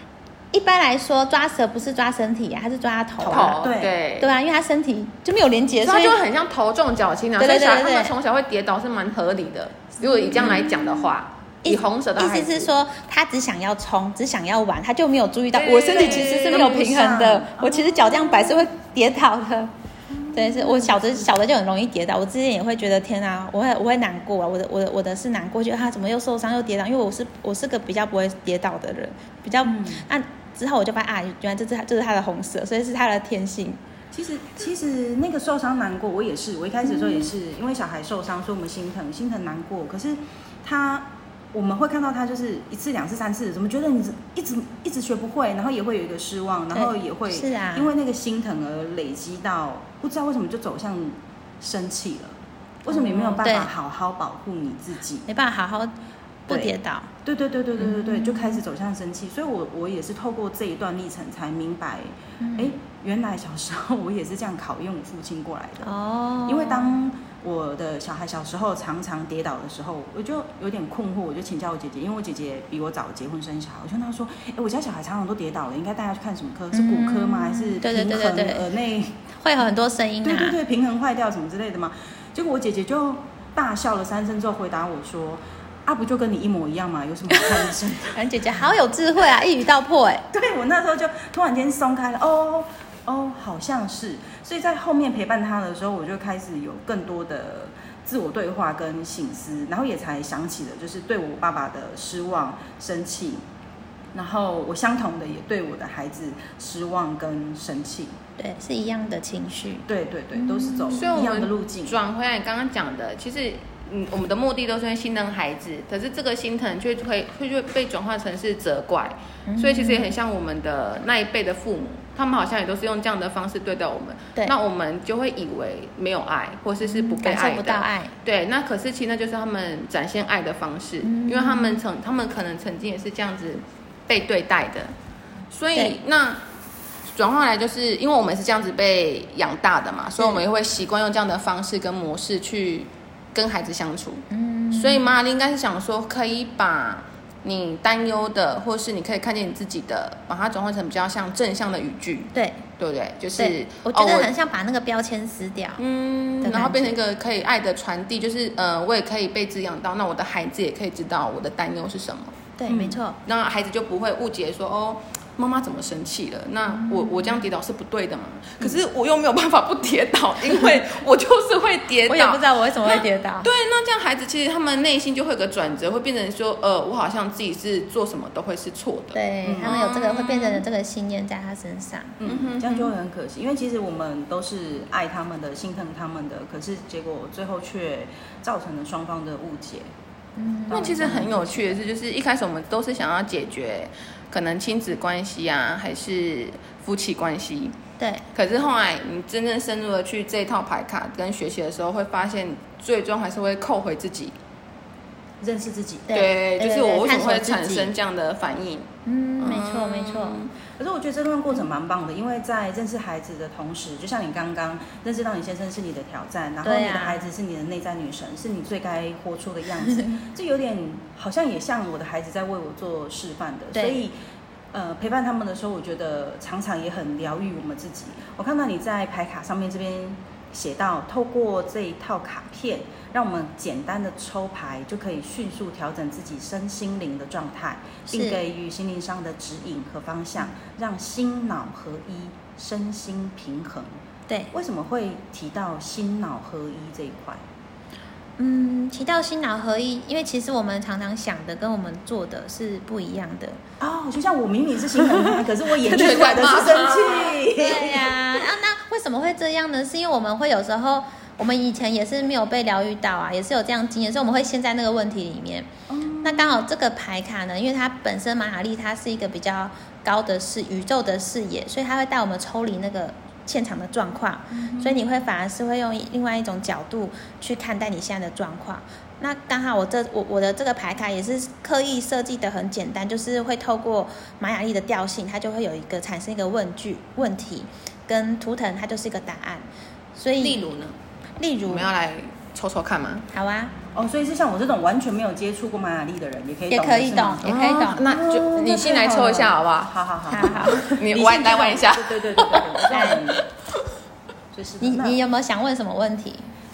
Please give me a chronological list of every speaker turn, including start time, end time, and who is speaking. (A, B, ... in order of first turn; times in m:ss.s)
0:00.5-0:03.6 A
0:03.2-0:03.9 B
0:03.3-0:04.3 C
0:04.2-0:06.2 A
0:05.8-0:12.7 C
0:07.4-0:08.1 A
0:10.3-0:11.1 B
0:10.4-0:10.6 A
0:11.6-0:19.7 A
0:15.6-0:17.0 C
0:15.9-0:18.7 B
0:20.1-0:21.3 B
0:20.3-0:33.8 A
0:29.6-0:30.0 B
0:34.1-0:55.3 B
0:36.8-0:37.3 A
0:46.7-0:47.9 A
0:52.9-0:53.7 A
0:55.3-0:55.9 A
0:56.5-0:57.1 A
0:56.5-1:05.9 B
0:57.8-0:58.6 A
1:02.4-1:02.7 A
1:05.8-1:07.0 A
1:06.4-1:19.2 B
1:16.7-1:18.6 A
1:19.4-1:20.6 A
1:20.2-1:28.2 B
1:27.3-1:30.2 A
1:30.3-1:43.4 B
1:44.1-1:48.2 B
1:48.4-1:51.0 A
1:49.9-1:52.0 B
1:50.9-2:14.9 C
1:59.5-2:00.1 A
2:06.8-2:08.1 A
2:11.0-2:11.8 A
2:15.5-2:16.4 C
2:17.1-2:34.3 C
2:24.3-2:25.1 A
2:32.3-2:32.6 A
2:33.4-2:35.8 A
2:35.8-2:42.5 C
2:36.4-2:36.9 A
2:42.6-2:43.2 A
2:42.7-2:43.0 B
2:43.2-3:00.6 C
2:46.7-2:47.4 A
2:52.1-2:53.5 A
2:59.1-3:02.1 A
2:59.4-2:59.8 B
3:02.2-3:09.9 B
3:02.2-3:02.9 C
3:10.4-3:11.4 A
3:10.7-3:11.6 B
3:10.7-3:17.8 C
3:18.3-3:24.4 C
3:25.4-3:26.1 B
3:26.1-3:27.9 A
3:26.1-3:30.5 C
3:29.0-3:30.4 A
3:30.8-3:44.1 B
3:36.6-3:37.2 A
3:43.7-3:44.0 A
3:44.7-4:03.9 B
3:58.1-3:58.4 A
4:04.5-4:07.4 B
4:08.4-4:13.6 A
4:13.8-4:18.4 B
4:15.8-4:17.4 C
4:17.6-4:25.7 A
4:25.9-4:26.6 B
4:26.2-4:50.7 A
4:34.5-4:35.0 B
4:50.4-4:51.0 C
4:51.4-4:51.9 A
4:51.7-4:53.3 C
4:53.3-4:53.8 A
4:53.9-5:03.4 B
4:56.7-4:58.1 A
4:57.4-5:03.2 C
5:00.3-5:00.9 A
5:02.9-5:03.2 A
5:04.5-5:05.2 B
5:04.8-5:06.5 A